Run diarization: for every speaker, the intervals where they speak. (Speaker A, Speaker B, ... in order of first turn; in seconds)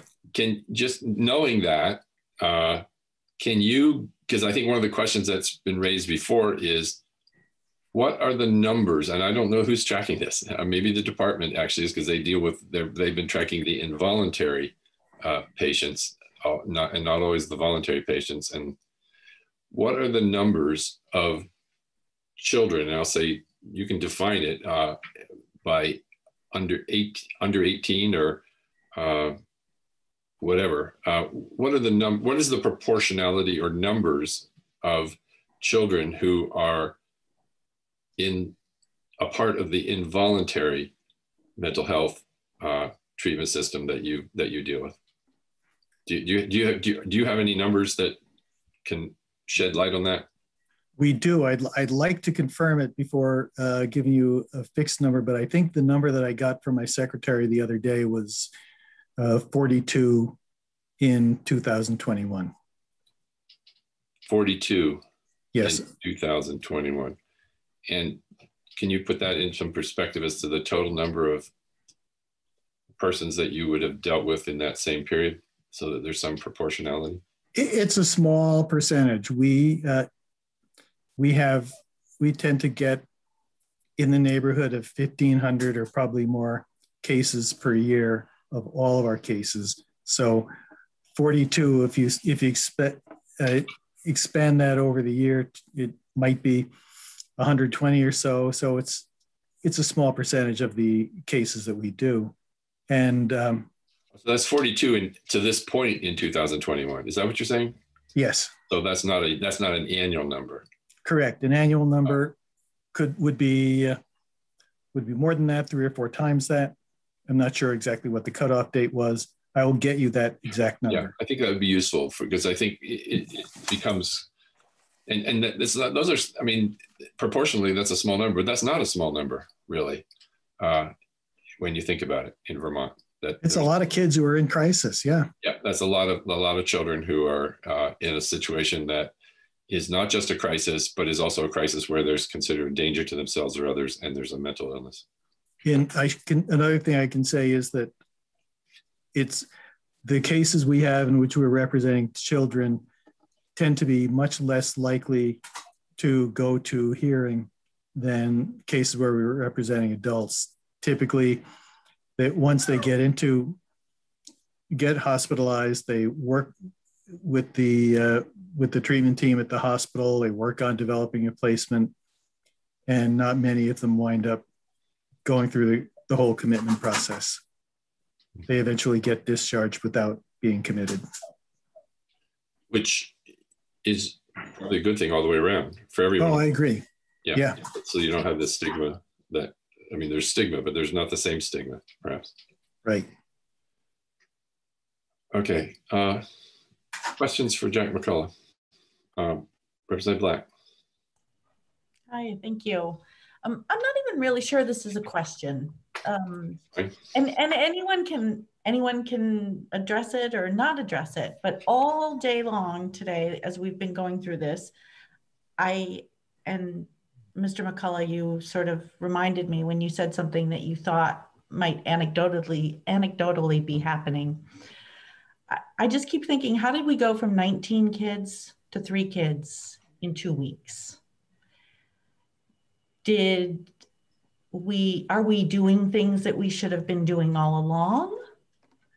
Speaker A: 0.3-2.8, 3.4-7.0, 7.9-18.8, 19.7-21.5, 22.4-25.0, 25.6-26.0, 26.5-28.4, 28.9-29.4, 30.4-37.0, 38.2-38.5, 39.2-40.9, 41.6-45.0, 46.0-48.2, 48.8-50.2, 64.2-65.0, 65.6-67.2, 67.9-68.2, 68.8-71.5, 73.0-77.2, 104.2-107.8, 108.7-110.6, 120.9-124.2, 125.1-130.0, 130.6-130.9, 131.6-133.7, 135.4-139.1, 139.7-145.0, 182.7-183.1, 183.8-186.4, 187.2-192.3, 195.3-196.2, 197.2-198.3, 199.2-200.5
Speaker B: 51.0-58.5, 59.2-60.4, 61.0-62.5, 65.5-65.9, 77.5-80.1, 81.2-83.0, 84.0-90.5, 91.1-96.7, 97.4-99.0, 99.6-102.3, 102.9-103.7, 108.1-108.5, 111.0-112.3, 112.9-114.0, 114.9-116.7, 117.3-121.1, 133.4-135.3, 145.6-147.9, 149.1-149.5, 150.0-152.8, 153.6-155.4, 156.0-161.4, 162.2-163.6, 164.7-166.5, 167.1-171.9, 172.9-174.4, 175.2-177.4, 178.5-181.0, 186.2-187.6
Speaker C: 202.1-206.6, 207.1-214.7, 215.6-224.5, 225.5-231.0, 233.0-233.7, 234.5-238.2